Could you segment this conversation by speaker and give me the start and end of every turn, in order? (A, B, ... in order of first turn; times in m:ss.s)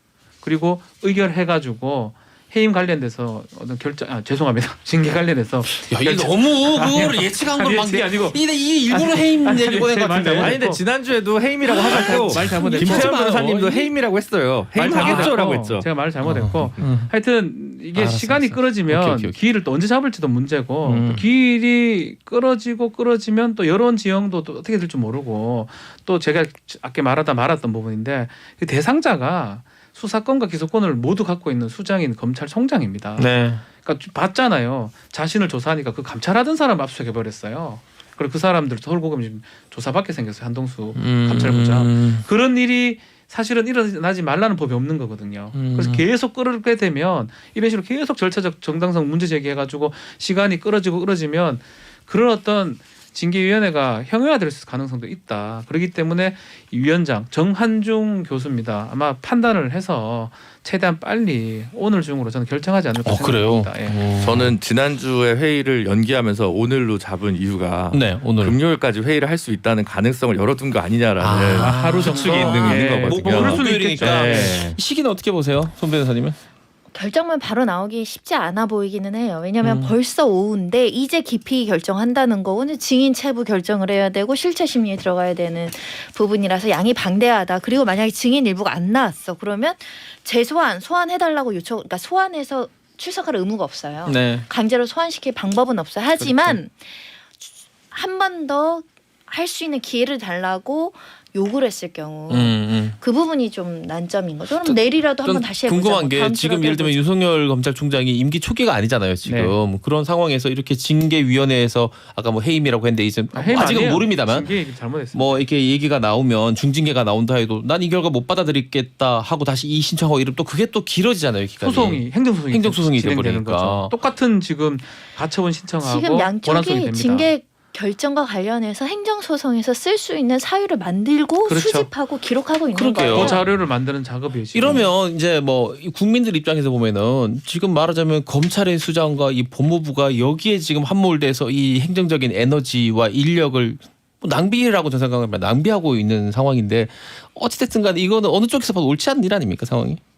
0:00.4-0:10.8 A
0:05.6-0:10.6 B
0:10.4-0:15.9 C
0:11.7-0:13.2 A
0:11.7-0:13.9 B
0:14.8-1:04.0 A
0:14.9-0:15.4 B
0:16.2-0:17.1 B
0:17.9-0:19.4 B
0:20.8-0:21.2 B
0:33.2-0:33.6 B
0:41.0-0:42.2 B
0:45.5-0:46.0 B
1:03.0-1:04.5 B
1:04.2-1:14.8 C
1:07.9-1:08.6 B
1:11.2-1:16.4 B
1:11.5-1:14.6 A
1:16.9-1:37.0 D
1:19.6-1:19.9 B
1:34.1-1:34.5 B
1:36.2-1:36.6 B
1:37.9-1:47.0 D
1:42.3-1:43.0 B
1:44.6-1:54.5 B
1:49.2-1:49.6 A
1:53.3-1:55.5 A
1:55.1-2:03.9 B
2:01.6-2:07.3 A
2:05.8-2:13.4 D
2:11.4-2:11.9 A
2:12.7-2:13.4 B
2:13.0-2:14.9 A
2:14.5-2:30.0 B